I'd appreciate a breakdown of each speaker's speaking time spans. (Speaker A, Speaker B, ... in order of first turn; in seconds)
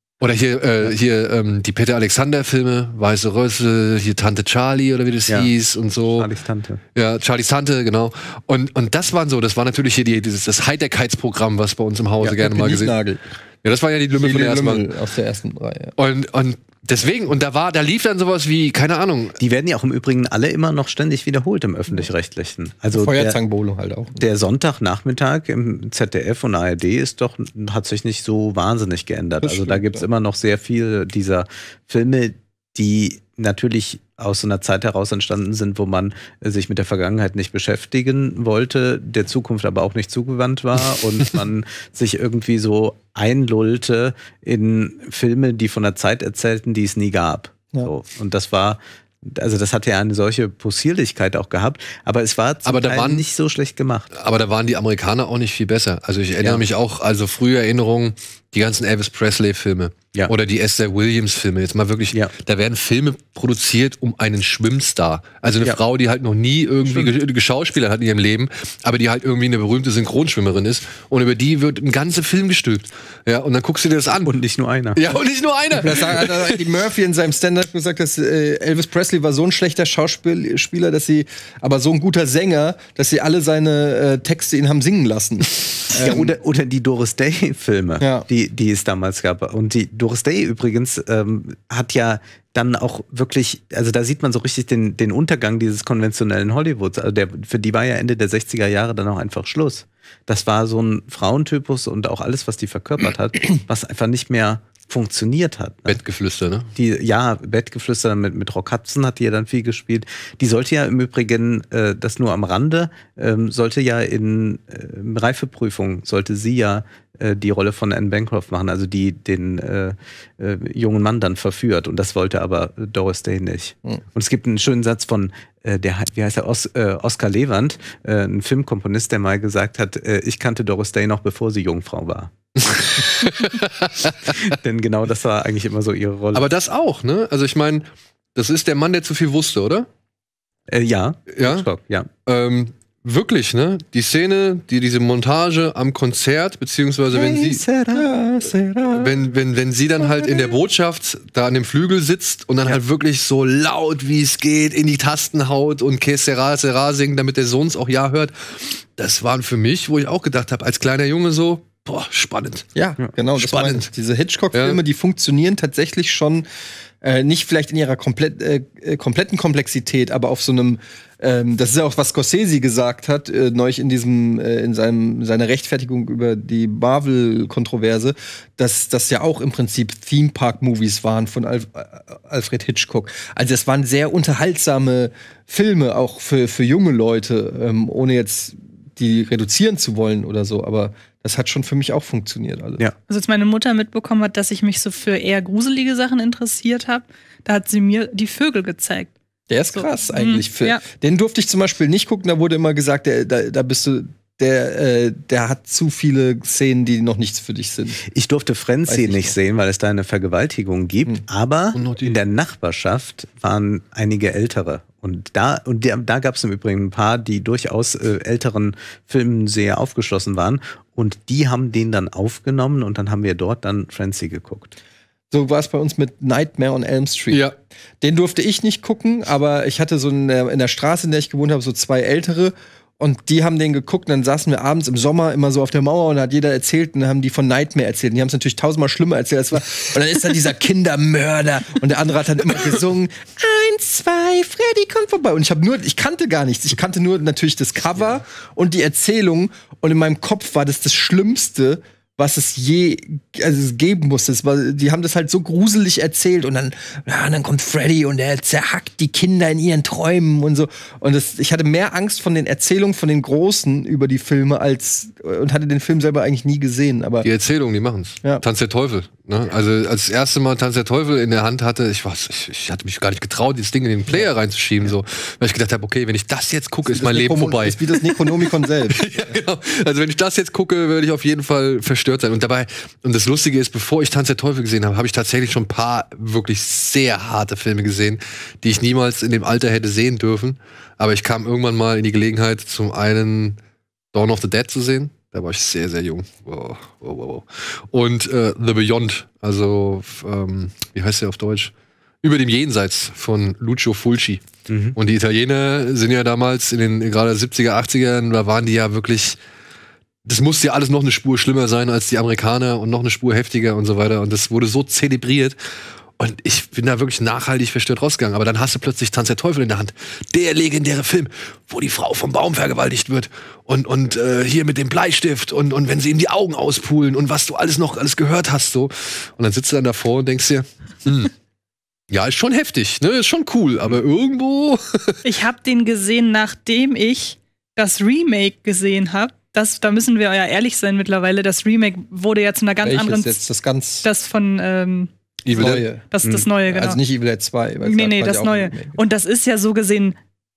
Speaker A: 0.2-6.3, 7.0-12.9, 13.6-14.8, 16.0-19.4, 52.7-53.2, 54.1-74.3, 75.0-76.6, 105.9-106.7, 132.6-134.6, 136.3-139.9, 141.3-141.7, 142.3-147.6, 148.9-162.7, 163.3-163.9, 164.5-164.8, 211.8-212.2, 267.2-293.6, 294.1-304.4, 305.0-309.4, 310.2-315.6, 316.2-331.3, 332.1-335.2, 345.4-345.9
Speaker B: 6.2-6.8, 19.4-23.4, 24.2-54.1, 66.8-67.1, 74.2-75.2, 85.9-106.0, 106.8-132.9, 134.3-136.5, 140.7-142.1, 147.1-148.1, 208.1-224.8, 304.7-305.0
Speaker C: 12.2-13.2, 14.1-15.9, 22.9-24.2, 29.4-30.1, 75.8-86.3, 88.0-88.3, 147.9-149.3, 150.0-150.5, 162.8-166.4, 167.0-192.8, 199.5-208.0, 208.9-209.4, 225.3-227.5, 228.0-267.3, 276.9-279.1, 342.8-344.1, 345.6-346.1, 346.6-349.0
Speaker D: 193.1-199.1, 199.7-200.8, 335.2-343.4, 344.0-345.1, 346.1-347.0, 347.8-350.2